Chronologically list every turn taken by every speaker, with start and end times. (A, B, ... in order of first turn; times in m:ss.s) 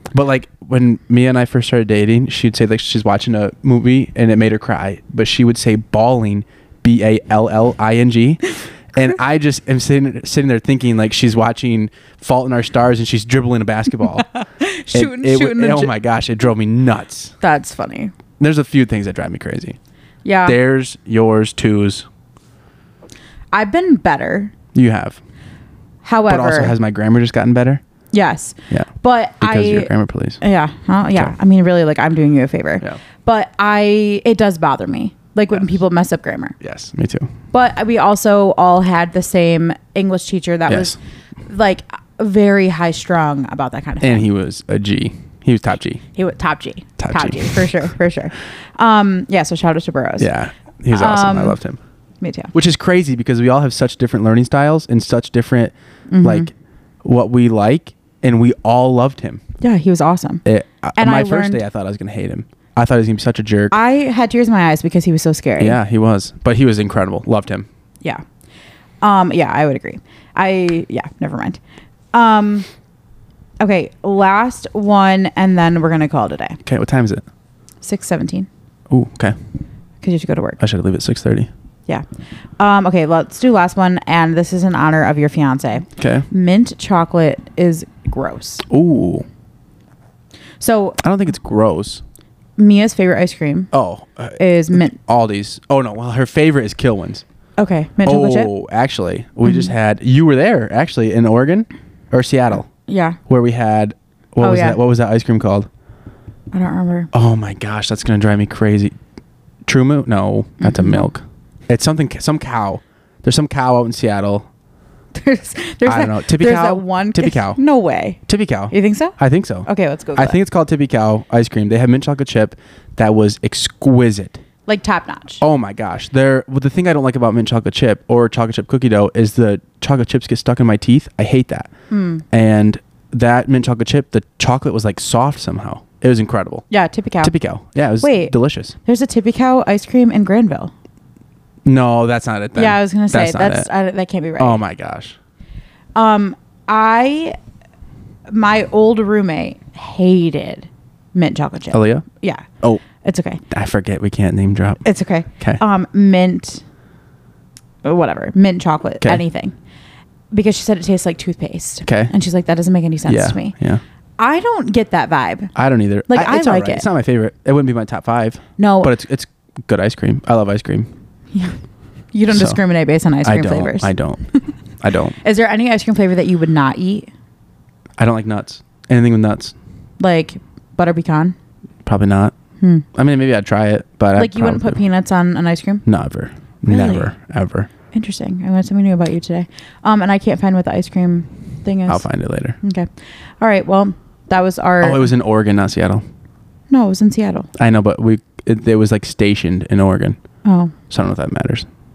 0:00.1-0:14.3 A
0:14.2-0:15.9 B
0:14.9-0:17.4 A
0:17.4-0:18.1 B
0:18.4-0:19.8 A
0:20.2-0:20.6 B
0:20.5-0:22.1 A
0:23.5-0:24.5 B
0:24.7-0:25.2 A
0:26.0-0:26.8 B
0:26.3-0:27.8 A
0:28.1-0:29.9 B
0:29.4-0:30.4 A
0:30.4-0:36.6 B
0:36.6-0:37.3 A
0:37.5-0:44.3 B
0:40.7-0:41.0 A
0:44.0-0:46.0 A
0:46.2-0:50.3 B
0:47.0-0:47.9 A
0:50.2-0:51.8 A
0:50.9-0:51.6 B
0:52.2-0:52.5 B
0:52.5-0:56.5 A
0:56.1-0:56.5 B
0:57.0-0:59.4 A
0:59.6-1:00.4 B
1:00.4-1:03.8 A
1:01.0-1:01.6 B
1:03.7-1:05.8 B
1:05.6-1:07.7 A
1:09.0-1:11.6 B
1:12.1-1:12.7 B
1:13.6-1:16.6 B
1:16.6-1:17.2 A
1:17.8-1:18.5 B
1:18.9-1:19.4 A
1:20.0-1:20.6 B
1:20.6-1:21.5 A
1:22.6-1:28.6 B
1:26.0-1:26.3 A
1:28.7-1:29.3 A
1:30.6-1:31.0 B
1:31.0-1:32.0 A
1:32.6-1:33.7 B
1:33.7-1:37.2 A
1:34.4-1:35.0 B
1:37.6-1:38.5 B
1:38.0-1:42.7 A
1:39.5-1:39.7 B
1:42.9-1:43.2 B
1:43.3-1:45.7 A
1:44.4-1:44.8 B
1:46.5-1:47.1 B
1:47.1-1:48.9 A
1:49.7-1:54.5 A
1:50.6-1:51.1 B
1:55.1-1:58.2 B
1:55.9-1:57.6 A
1:58.3-2:04.4 A
1:58.7-2:00.4 B
2:04.7-2:05.4 B
2:05.4-2:11.7 A
2:11.9-2:12.2 B
2:12.3-2:16.6 A
2:16.7-2:17.3 B
2:17.2-2:18.8 A
2:18.0-2:20.7 B
2:21.6-2:23.7 A
2:22.6-2:24.6 B
2:24.4-2:25.2 A
2:26.0-2:27.4 B
2:28.3-2:33.4 B
2:31.7-2:32.0 A
2:33.5-2:34.8 A
2:34.8-2:36.6 B
2:37.8-2:39.5 B
2:40.3-2:43.6 B
2:41.8-2:42.1 A
2:43.1-2:43.8 A
2:44.2-2:45.5 B
2:45.6-2:50.9 A
2:46.1-2:46.9 B
2:48.6-2:48.9 B
2:52.1-2:54.5 B
2:52.3-2:52.6 A
2:53.2-2:54.2 A
2:54.8-2:55.2 A
2:55.2-2:57.1 B
2:58.0-2:59.6 A
3:00.0-3:01.4 B
3:01.8-3:02.3 A
3:02.6-3:02.9 B
3:03.0-3:04.8 A
3:04.2-3:05.8 B
3:05.9-3:07.7 A
3:06.7-3:07.1 B
3:07.9-3:12.1 B
3:11.9-3:12.6 A
3:12.6-3:12.9 B
3:13.4-3:15.1 B
3:14.8-3:16.0 A
3:16.7-3:17.5 B
3:17.6-3:20.2 A
3:20.4-3:20.7 B
3:20.9-3:21.7 A